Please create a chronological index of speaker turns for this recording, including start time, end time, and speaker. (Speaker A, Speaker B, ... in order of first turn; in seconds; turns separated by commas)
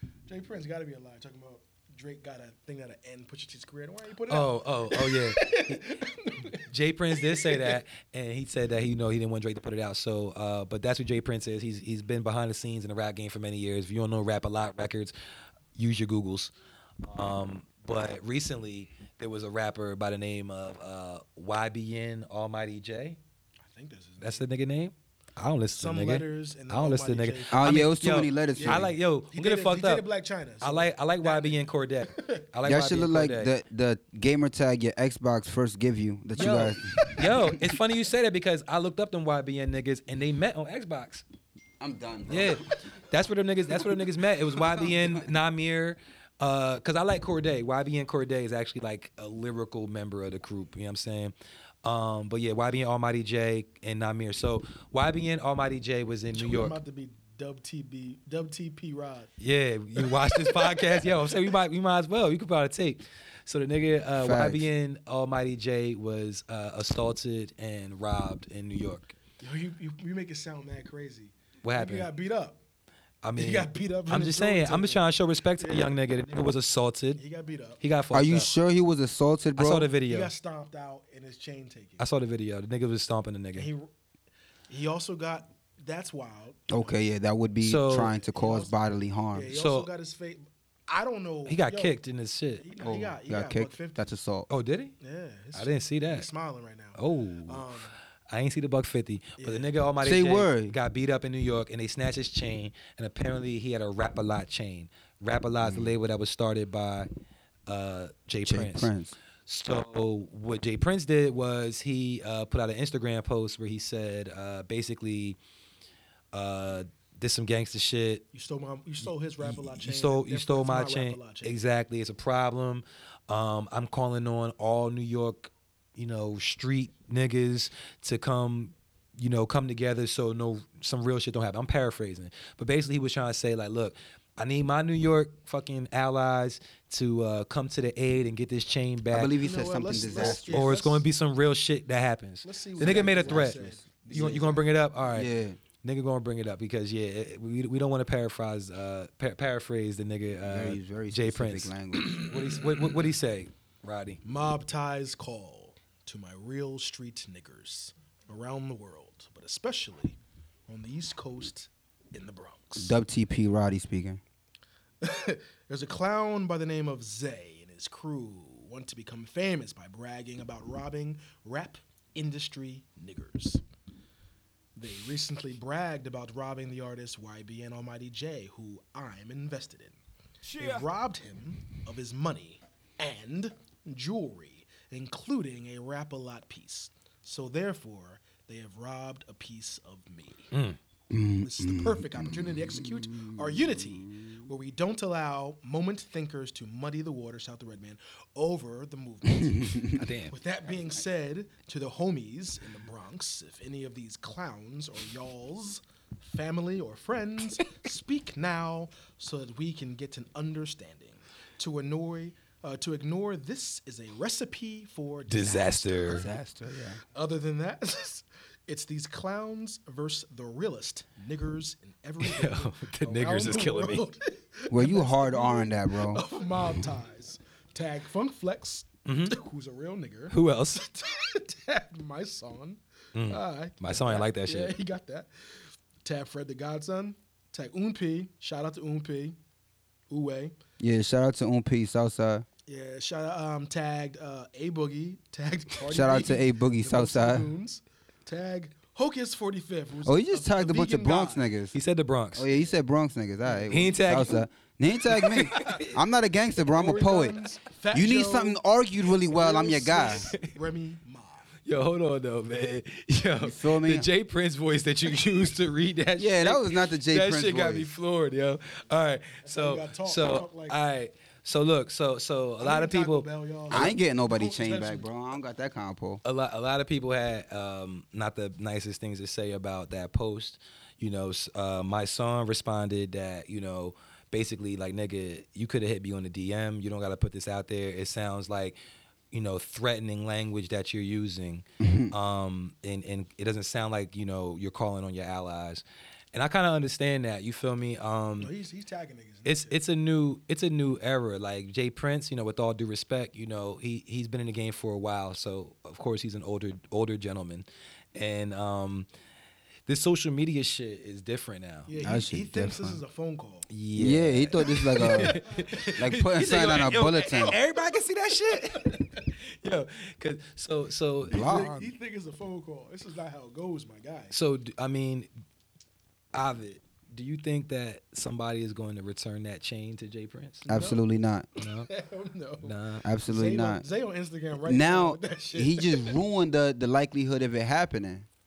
Speaker A: 0.3-6.6, Speaker B: 4.3-15.1, Speaker A: 7.1-7.8, Speaker B: 15.8-16.5, Speaker B: 17.0-23.2, Speaker A: 23.6-24.5, Speaker B: 24.2-30.1, Speaker A: 25.8-27.9, Speaker C: 27.5-28.9, Speaker A: 28.6-32.5, Speaker B: 30.6-33.5, Speaker C: 32.6-37.3, Speaker B: 36.4-41.2, Speaker A: 36.5-37.3, Speaker C: 41.8-42.8, Speaker B: 42.3-51.3, Speaker C: 44.5-45.2, Speaker B: 51.8-56.8, Speaker A: 56.3-59.3, Speaker B: 59.4-69.1, Speaker A: 60.0-61.4, Speaker C: 64.2-64.7, Speaker A: 69.4-72.6, Speaker B: 71.6-72.1, Speaker B: 73.2-77.2, Speaker A: 73.4-75.0, Speaker A: 75.6-76.0, Speaker A: 77.2-77.8, Speaker B: 77.8-78.5, Speaker C: 78.1-79.9, Speaker B: 79.6-80.3, Speaker A: 80.1-82.0, Speaker B: 82.0-83.7, Speaker A: 83.5-83.9, Speaker A: 84.7-87.0, Speaker C: 86.7-89.5, Speaker B: 87.6-88.1, Speaker A: 88.1-88.8, Speaker A: 89.3-92.0, Speaker B: 89.5-89.9, Speaker B: 91.5-92.7, Speaker A: 92.6-94.1, Speaker C: 92.8-94.5, Speaker B: 94.5-94.9, Speaker A: 95.0-97.9, Speaker B: 95.5-96.3, Speaker B: 97.0-97.8, Speaker B: 98.3-107.1, Speaker A: 99.4-99.7, Speaker C: 100.0-100.8, Speaker C: 105.6-105.9, Speaker B: 107.7-108.9, Speaker C: 108.5-109.1, Speaker B: 109.5-115.4, Speaker B: 116.3-118.2, Speaker A: 118.3-121.6, Speaker B: 119.4-139.3, Speaker C: 139.1-140.8, Speaker A: 139.4-141.1, Speaker B: 140.2-145.3, Speaker A: 142.4-144.6, Speaker C: 142.8-144.6, Speaker C: 145.1-145.6, Speaker B: 145.8-154.2, Speaker C: 150.4-152.2, Speaker A: 154.2-160.2, Speaker A: 160.7-163.0, Speaker C: 162.8-164.2, Speaker A: 165.0-173.6, Speaker A: 174.8-180.0, Speaker A: 180.5-190.5, Speaker B: 190.5-190.8, Speaker C: 191.1-194.3, Speaker A: 191.4-216.3, Speaker C: 199.4-199.9, Speaker B: 199.9-200.3, Speaker B: 215.3-216.3, Speaker C: 216.1-217.0, Speaker A: 217.1-239.4, Speaker B: 222.2-224.1, Speaker C: 224.7-226.2, Speaker B: 229.1-229.4, Speaker B: 230.3-230.9, Speaker B: 233.1-234.8, Speaker A: 240.1-240.6, Speaker C: 240.8-242.5, Speaker A: 242.7-251.5, Speaker C: 245.8-247.5, Speaker C: 250.0-251.8, Speaker B: 251.7-252.5, Speaker C: 252.3-257.4, Speaker A: 253.4-253.9, Speaker B: 253.7-254.5, Speaker B: 255.1-255.9, Speaker A: 256.6-258.6, Speaker C: 257.9-260.3, Speaker A: 259.2-261.5, Speaker B: 260.1-260.5, Speaker B: 261.6-273.3, Speaker C: 263.4-264.1, Speaker C: 266.2-267.9, Speaker A: 269.4-270.8, Speaker A: 272.6-275.1, Speaker C: 273.7-276.2, Speaker B: 276.2-288.8, Speaker B: 289.3-298.5, Speaker C: 291.8-292.1, Speaker A: 298.4-299.8, Speaker B: 299.5-309.1, Speaker B: 309.9-311.9, Speaker A: 311.9-313.7, Speaker C: 312.0-313.0, Speaker B: 313.7-321.7, Speaker C: 314.0-315.4, Speaker A: 314.7-315.9, Speaker C: 316.0-317.6, Speaker A: 316.9-317.6, Speaker C: 321.3-321.9, Speaker A: 321.3-324.4, Speaker B: 324.3-325.3, Speaker B: 326.3-330.7, Speaker A: 330.7-331.0, Speaker C: 330.7-331.5, Speaker B: 331.6-331.9, Speaker A: 331.6-332.8, Speaker B: 332.6-333.1, Speaker C: 333.0-333.8, Speaker A: 333.3-336.2, Speaker C: 334.7-338.3